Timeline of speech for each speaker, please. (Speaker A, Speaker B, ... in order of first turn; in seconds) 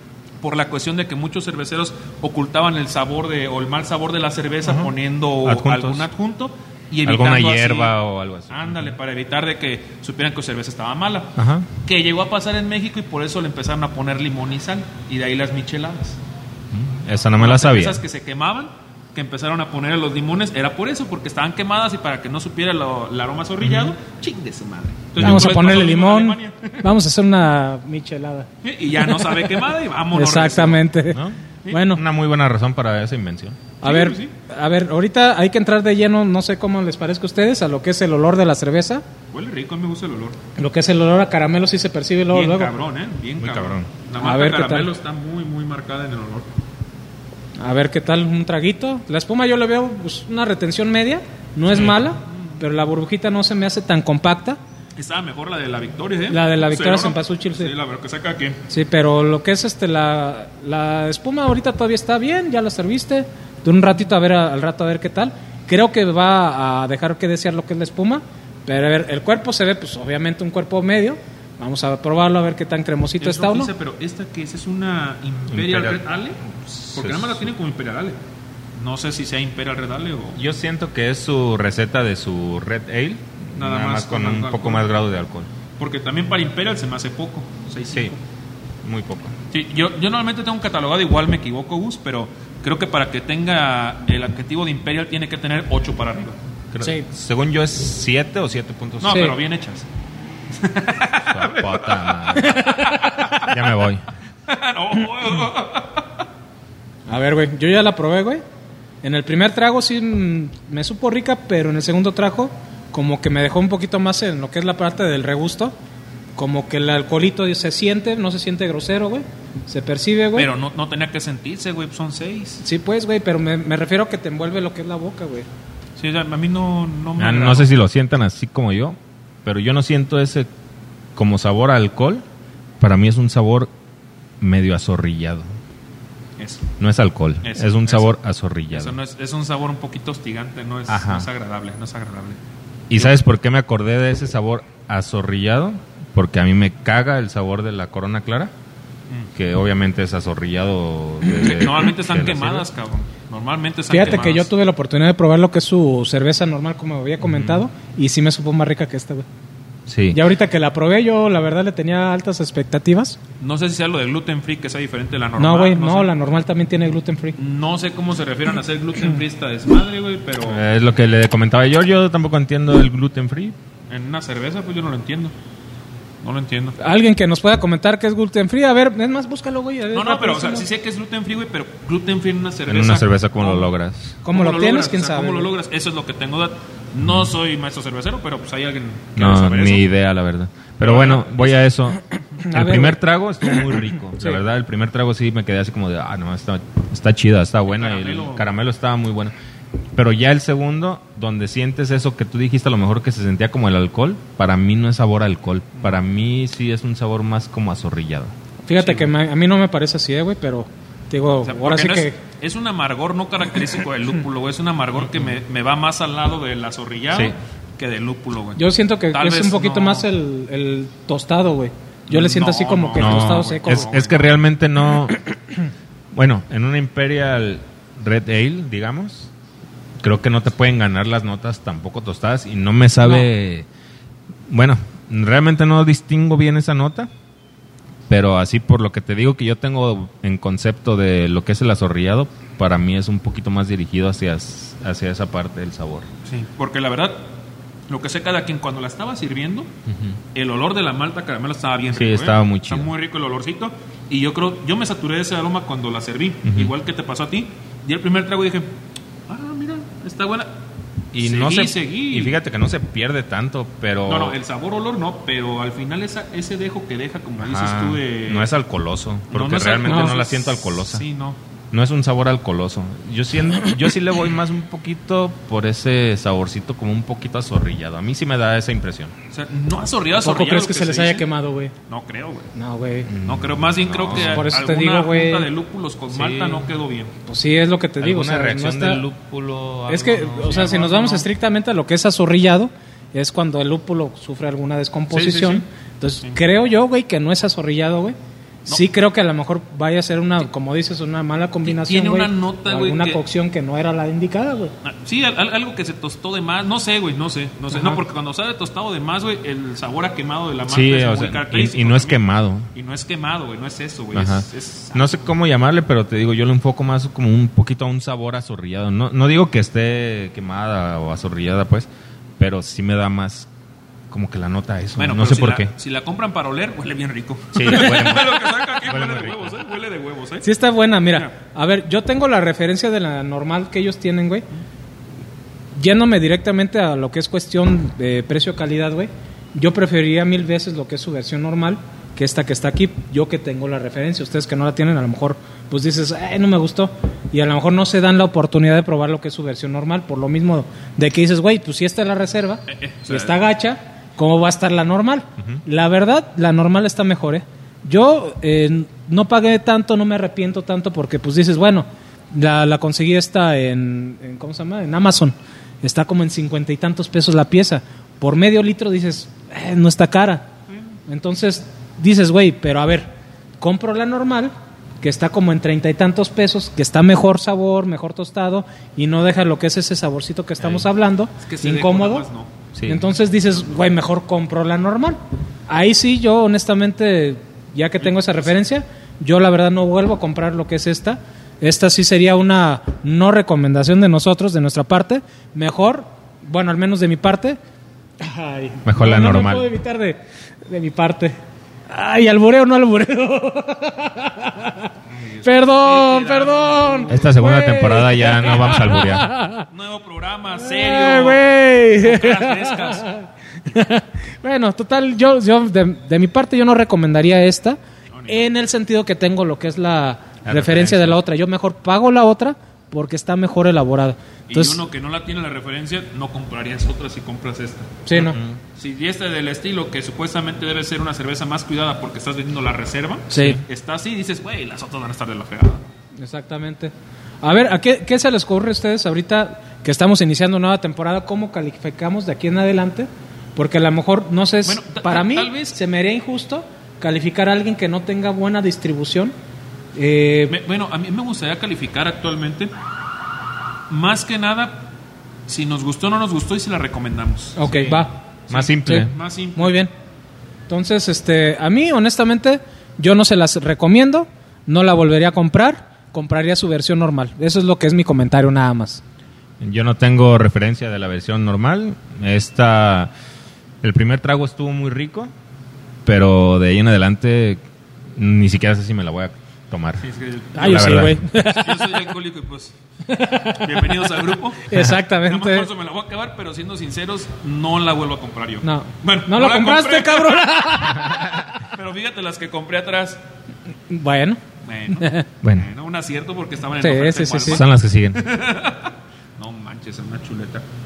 Speaker A: 0.4-7.9, 8.5-16.2, 17.4-26.9, 28.6-30.8, 33.8-34.3, 39.3-40.4, 42.3-46.5, 51.7-52.6, 55.0-58.6, 73.2-78.2, 78.8-80.4, 83.5-84.9, 85.8-88.2, 89.5-96.4, 99.0-99.8, 100.5-103.5, 104.5-106.0, 120.3-122.6, 126.0-127.7, 136.4-136.7, 137.4-138.1, 138.7-142.4, 151.3-154.5, 163.4-166.1, 167.3-170.6, 173.9-175.3, 176.2-176.8, 179.9-183.7, 184.3-189.9, 190.8-191.6, 197.7-198.5, 208.8-209.1, 211.4-220.1, 222.1-224.3, 246.2-247.2, 247.9-249.7, 250.3-258.7, 259.3-260.5, 261.2-262.4, 264.0-268.5, 269.3-271.4, 279.3-281.3, 281.9-282.5, 283.2-287.1, 290.2-291.3, 295.1-295.6, 301.6-303.2, 304.8-312.2, 312.7-315.3, 324.9-330.5, 331.1-331.3, 352.7-353.4, 370.7-370.9, 381.4-382.5, 388.0-388.5, 405.1-407.4, 408.3-409.0, 409.7-411.4, 412.0-413.1, 418.1-418.4, 424.5-428.0, 428.8-435.9, 444.6-445.8, 450.5-452.7, 453.9-454.8, 455.5-459.8, 480.0-493.2, 494.6-500.6
Speaker B: 4.6-4.9, 5.4-6.1, 7.0-8.9, 11.3-11.7, 16.7-18.0, 23.6-23.9, 25.2-25.6, 31.1-33.6, 43.4-43.9, 75.5-76.0, 76.6-77.5, 80.3-85.5, 87.9-88.2, 88.8-89.3, 96.7-99.3, 101.3-102.7, 103.4-104.1, 127.2-130.5, 131.2-132.2, 132.8-133.7, 134.4-135.5, 136.8-138.9, 140.9-141.3, 142.9-148.5, 149.3-152.6, 157.2-157.7, 159.9-160.2, 170.4-173.6, 182.7-184.2, 187.0-187.3, 189.2-199.3, 199.9-208.3, 223.0-225.2, 226.1-229.3, 230.0-233.7, 234.5-237.1, 238.1-246.1, 249.9-250.2, 251.9-252.9, 256.4-256.7, 261.1-264.4, 267.4-271.0, 271.7-279.1, 283.1-284.5, 286.1-286.7, 288.0-290.6, 310.7-312.7, 314.1-323.5, 324.1-325.7, 327.5-329.6, 382.7-383.1, 398.8-399.7, 407.1-409.3, 420.4-421.2, 428.1-428.6, 433.3-433.6, 458.5-459.1, 469.6-473.1, 473.8-475.3, 476.0-477.6, 478.1-480.0, 480.6-481.2, 497.4-498.2
Speaker C: 25.2-29.5, 30.1-32.0, 33.8-39.0, 40.6-42.7, 44.2-44.9, 47.6-54.6, 56.3-57.7, 58.7-73.7, 99.1-99.3, 102.5-102.9, 107.1-108.4, 109.0-115.7, 116.3-120.5, 122.6-125.5, 153.9-159.2, 160.1-163.2, 165.3-167.3, 176.8-180.7, 184.2-185.5, 192.4-194.4, 208.7-212.2, 218.5-223.9, 233.0-233.3, 269.9-270.1, 280.1-281.7, 282.5-283.1, 284.1-285.5, 287.2-289.0, 289.9-304.7, 307.7-308.0, 330.4-334.4, 335.8-370.5, 371.1-373.1, 373.6-382.2, 382.9-397.6, 398.2-401.4, 401.9-404.9, 405.4-409.6, 410.6-424.8, 428.0-428.4, 433.3-433.6, 436.2-449.3, 449.9-450.6, 457.6-458.2, 458.8-459.9, 460.7-469.0, 480.6-481.8, 483.1-483.8, 484.6-485.7, 488.6-491.5, 493.9-494.4, 494.9-495.2, 496.8-497.6